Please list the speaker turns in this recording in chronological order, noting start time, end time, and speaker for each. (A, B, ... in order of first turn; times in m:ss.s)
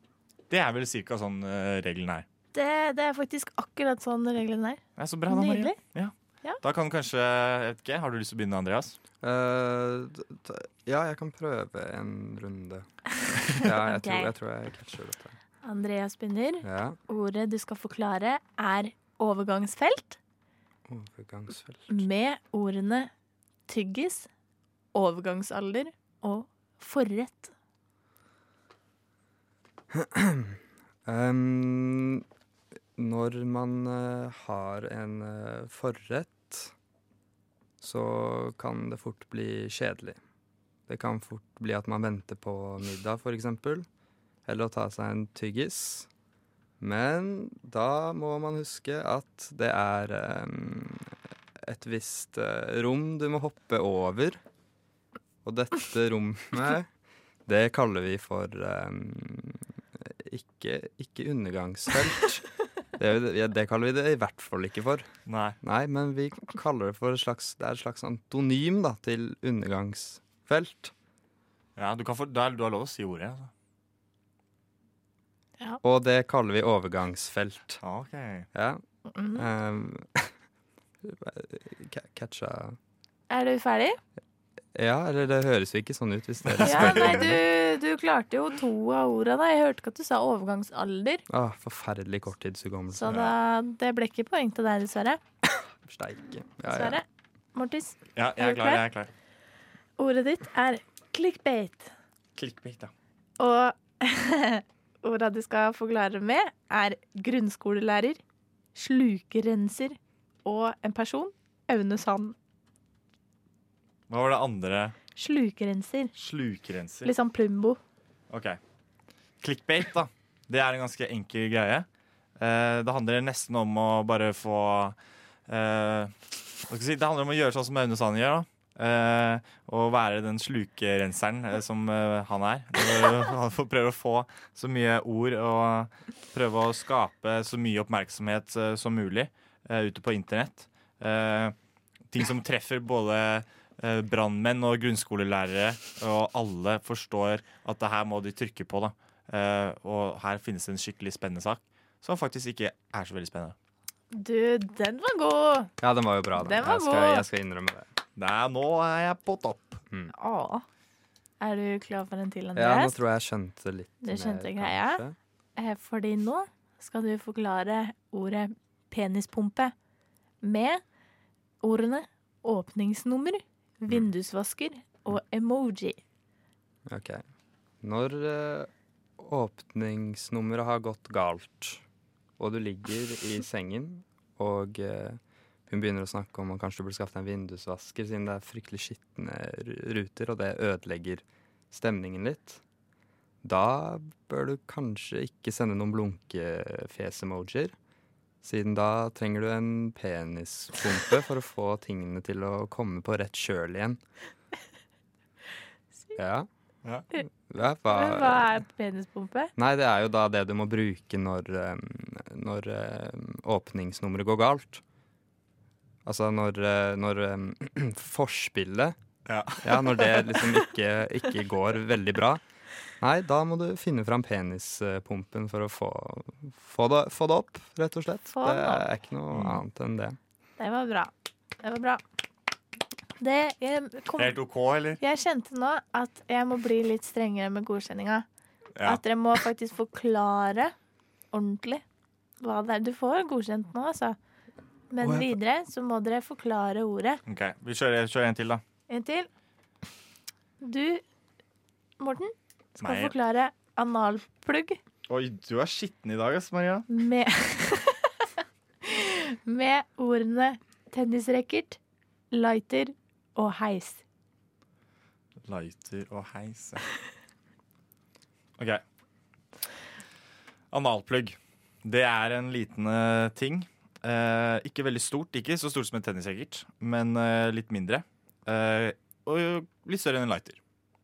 0:00.5-0:02.2 A
0:02.5-0:05.8 B
0:05.0-0:09.0 A
0:09.2-0:12.9 C
0:13.4-0:14.3 B
0:13.5-0:15.3 C
0:15.6-0:20.2 B
0:16.6-0:17.0 C
0:20.9-0:22.0 C
0:21.9-0:23.1 B
0:23.7-0:24.3 B
0:24.9-0:27.5 B
0:29.9-0:32.3 C
0:33.0-0:36.7 C
0:37.8-0:40.2 C
0:40.9-0:43.9 C
0:44.5-0:46.1 C
0:46.8-0:54.4 C
0:55.4-0:56.9 C
0:57.5-1:05.1 C
1:05.3-1:05.6 A
1:05.6-1:10.9 C
1:11.8-1:13.5 A
1:15.8-1:17.8 C
1:17.8-1:18.5 A
1:18.5-1:18.8 C
1:19.1-1:19.5 B
1:19.4-1:20.3 C
1:21.0-1:22.8 C
1:23.3-1:24.0 B
1:24.7-1:27.4 C
1:26.5-1:27.4 A
1:26.6-1:31.2 B
1:31.3-1:33.2 C
1:32.9-1:35.2 B
1:33.1-1:33.4 A
1:35.8-1:37.0 C
1:36.7-1:38.8 B
1:38.2-1:39.1 A
1:40.0-1:41.9 B
1:42.4-1:42.9 A
1:43.4-1:48.2 B
1:48.8-1:52.4 B
1:54.1-1:55.0 A
1:55.2-1:56.1 B
1:56.2-1:57.1 A
1:57.0-1:57.8 B
1:58.3-1:58.6 A
1:59.4-2:01.9 A
2:02.4-2:05.0 A
2:05.5-2:06.1 A
2:06.7-2:21.6 A
2:22.1-2:33.6 A
2:34.1-2:35.7 B
2:35.8-2:37.9 C
2:36.4-2:37.3 B
2:38.2-2:39.8 A
2:40.1-2:40.6 B
2:41.4-2:43.0 B
2:42.6-2:45.2 C
2:44.0-2:45.0 B
2:45.6-2:49.7 B
2:50.4-2:50.8 B
2:51.6-2:56.0 B
2:56.9-2:57.2 C
2:57.8-3:01.8 C
3:02.4-3:12.6 C
3:13.4-3:17.7 C
3:18.4-3:24.0 C
3:26.2-3:26.5 C
3:27.3-3:28.6 C
3:27.9-3:29.5 B
3:29.6-3:34.8 C
3:36.1-3:39.0 C
3:39.3-3:40.3 A
3:39.6-3:42.4 C
3:43.0-3:50.2 C
3:48.3-3:48.8 B
3:49.3-3:49.6 A
3:50.6-3:52.0 B
3:53.2-3:54.4 B
3:54.2-3:55.0 A
3:55.0-3:58.3 B
3:58.8-4:00.7 B
4:01.3-4:01.8 B
4:02.4-4:04.2 B
4:04.9-4:07.2 B
4:05.0-4:05.4 C
4:07.3-4:08.6 A
4:08.9-4:09.3 B
4:10.6-4:11.0 B
4:12.0-4:14.8 B
4:12.8-4:13.1 A
4:15.1-4:16.9 A
4:16.9-4:18.3 B
4:18.8-4:21.8 B
4:22.3-4:24.0 B
4:25.5-4:26.8 A
4:30.7-4:40.6 A